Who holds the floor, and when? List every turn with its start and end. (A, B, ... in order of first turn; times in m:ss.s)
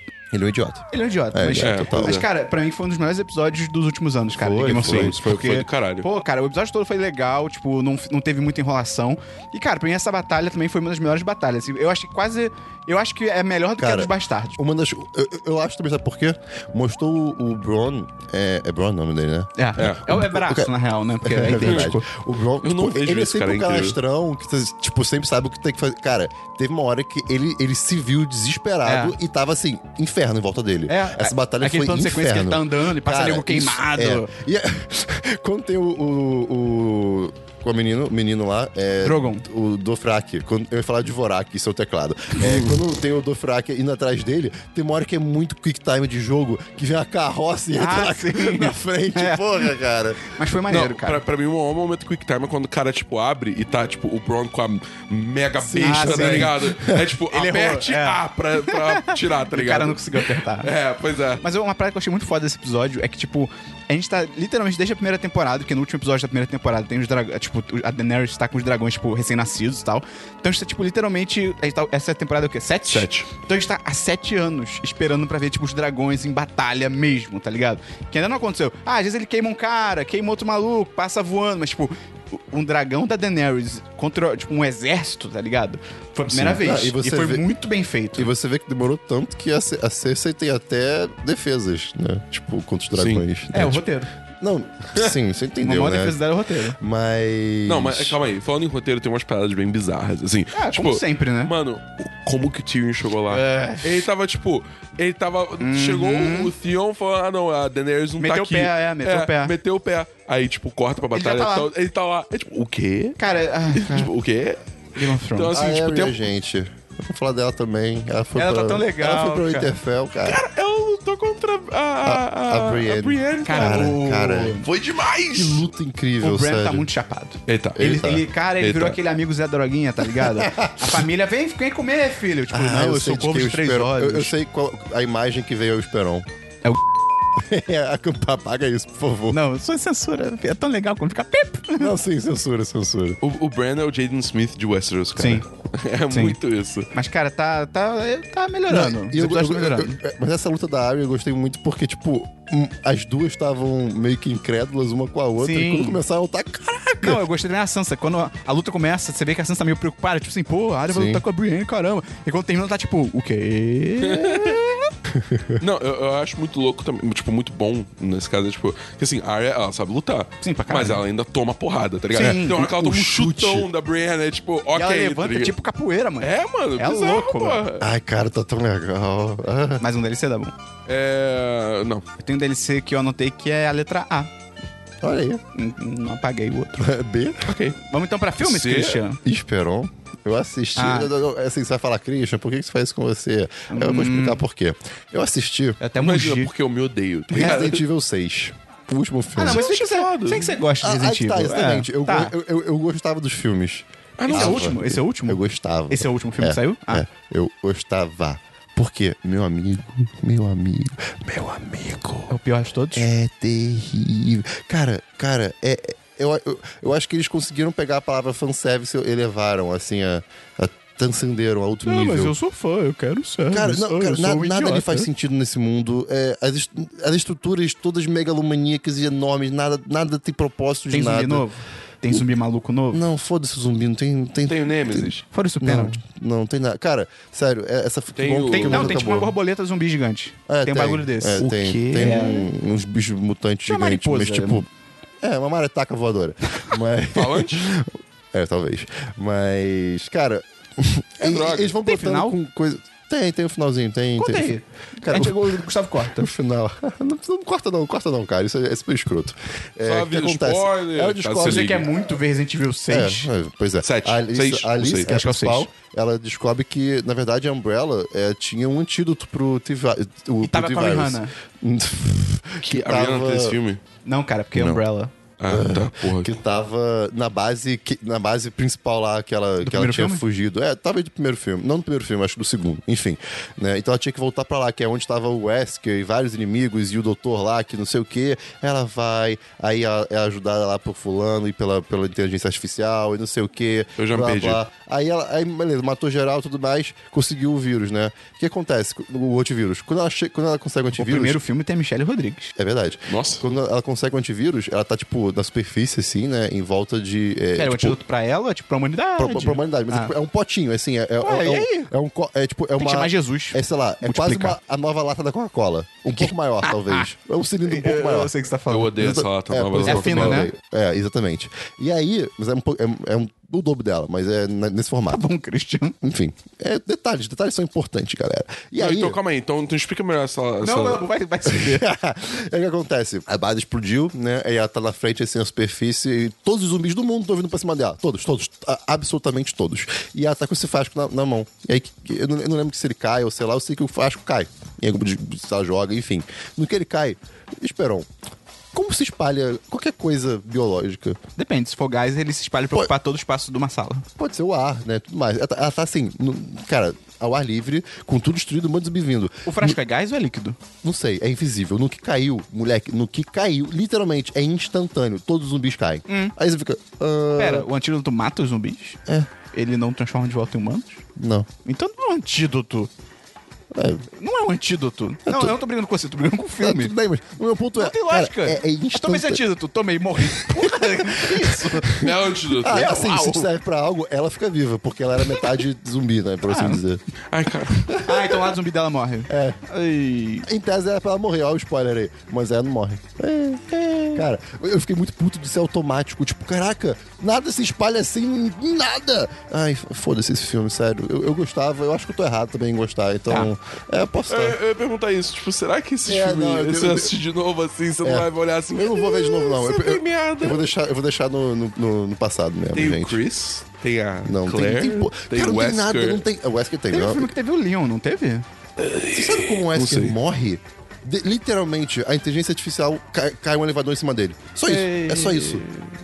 0:00.3-0:02.2 A
0:00.9-0:14.6 B
0:01.6-0:02.3 C
0:04.4-0:05.2 A
0:04.8-0:06.1 C
0:13.8-0:50.3 A
0:19.6-0:22.1 B
0:22.6-0:24.0 C
0:28.8-0:29.2 B
0:30.9-0:34.3 B
0:39.0-0:39.4 B
0:42.4-0:42.7 B
0:47.8-0:49.7 B
0:50.2-0:51.2 B
0:50.7-1:01.4 C
0:55.6-0:57.0 A
0:55.8-0:56.5 B
0:57.3-1:00.7 B
1:01.4-1:28.3 B
1:12.9-1:13.3 C
1:26.3-1:27.5 A
1:28.2-1:33.8 A
1:33.0-1:33.2 C
1:33.5-1:34.1 B
1:34.4-1:36.2 A
1:35.6-1:36.8 B
1:36.8-1:38.2 A
1:37.7-1:53.2 C
1:40.5-1:41.5 B
1:43.3-1:44.1 B
1:45.6-1:46.5 B
1:48.2-1:49.5 B
1:51.1-1:51.7 B
1:53.2-1:54.1 B
1:53.7-1:56.2 C
1:55.0-1:56.0 B
1:55.5-2:00.4 A
1:58.4-1:59.7 B
2:00.2-2:04.0 C
2:02.0-2:04.6 A
2:03.4-2:04.7 B
2:04.6-2:05.7 C
2:05.3-2:06.9 A
2:06.2-2:14.3 B
2:07.5-2:08.0 C
2:07.8-2:08.3 A
2:08.6-2:09.0 C
2:10.2-2:11.0 A
2:12.5-2:16.3 A
2:17.4-2:19.4 A
2:19.3-2:21.9 B
2:21.8-2:23.2 A
2:23.2-2:26.9 C
2:25.2-2:25.4 B
2:26.1-2:26.4 B
2:26.9-2:30.0 B
2:28.7-2:37.2 A
2:35.4-2:36.0 B
2:37.0-2:44.9 B
2:40.9-2:41.2 A
2:44.0-2:44.6 C
2:45.1-2:45.6 A
2:45.6-2:55.5 C
2:50.4-2:51.0 B
2:52.1-2:52.6 B
2:52.2-2:53.7 A
2:54.7-2:57.6 B
2:56.2-2:57.9 C
2:57.8-2:59.8 A
2:59.8-3:00.5 B
3:00.9-3:02.1 C
3:02.2-3:04.3 B
3:05.0-3:05.4 A
3:05.5-3:06.9 B
3:06.8-3:07.5 A
3:07.4-3:07.8 C
3:07.8-3:09.2 B
3:08.4-3:09.0 C
3:09.2-3:15.8 A
3:10.8-3:11.1 B
3:13.7-3:14.4 B
3:15.8-3:16.5 B
3:16.0-3:17.8 C
3:17.3-3:19.6 A
3:19.4-3:22.3 B
3:19.4-3:20.6 C
3:20.8-3:32.3 A
3:24.2-3:24.7 C
3:24.3-3:27.0 B
3:32.3-3:33.1 B
3:32.9-3:42.3 A
3:41.8-3:45.1 B
3:43.5-3:51.4 A
3:50.9-3:53.0 B
3:52.9-3:59.3 A
3:54.5-3:55.2 C
3:55.3-3:56.0 B
3:58.2-3:59.0 C
3:58.5-4:02.5 B
4:00.5-4:04.7 A
4:03.7-4:04.6 B
4:05.2-4:21.8 A
4:07.1-4:07.7 C
4:11.2-4:11.7 C
4:11.8-4:12.4 B
4:14.2-4:16.3 B
4:19.8-4:21.9 C
4:21.4-4:23.3 B
4:22.9-4:33.6 A
4:23.8-4:25.1 C
4:25.0-4:25.7 B
4:30.4-4:31.3 B
4:32.6-4:33.8 C
4:34.0-4:35.1 B
4:35.4-4:36.3 C
4:35.5-5:01.4 A
4:39.6-4:40.2 B
4:54.0-4:54.6 C
5:01.0-5:02.5 B
5:02.6-5:08.0 A
5:03.1-5:03.4 C
5:07.6-5:10.1 B
5:09.2-5:18.3 A
5:11.2-5:11.9 B
5:12.8-5:14.6 B
5:16.2-5:17.1 B
5:17.6-5:19.3 B
5:18.7-5:20.5 C
5:19.0-5:25.2 A
5:19.8-5:20.5 B
5:25.1-5:26.0 B
5:26.0-5:29.2 A
5:28.8-5:31.0 C
5:30.6-5:31.9 B
5:31.4-5:48.1 A
5:48.7-5:51.2 A
5:51.4-5:54.1 B
5:54.2-5:59.8 A
5:59.4-6:00.6 B
6:00.8-6:07.7 A
6:06.1-6:06.4 B
6:07.4-6:09.0 B
6:09.5-6:11.0 B
6:11.2-6:11.5 A
6:11.6-6:12.9 B
6:13.7-6:14.0 A
6:14.1-6:16.9 B
6:15.3-6:15.6 A
6:16.6-6:19.4 A
6:17.8-6:22.0 B
6:20.3-6:27.0 A
6:22.0-6:22.9 C
6:22.6-6:23.5 B
6:26.4-6:26.8 B
6:27.3-6:28.0 C
6:27.9-6:30.5 B
6:28.0-6:28.4 A
6:29.3-6:29.6 A
6:30.4-6:44.6 A
6:44.3-6:50.6 C
6:46.1-6:47.1 A
6:48.0-6:53.2 A
6:52.7-6:56.2 C
6:54.2-6:57.3 A
6:56.9-6:58.5 B
6:58.8-7:00.2 C
6:59.1-7:05.6 A
7:04.7-7:05.9 B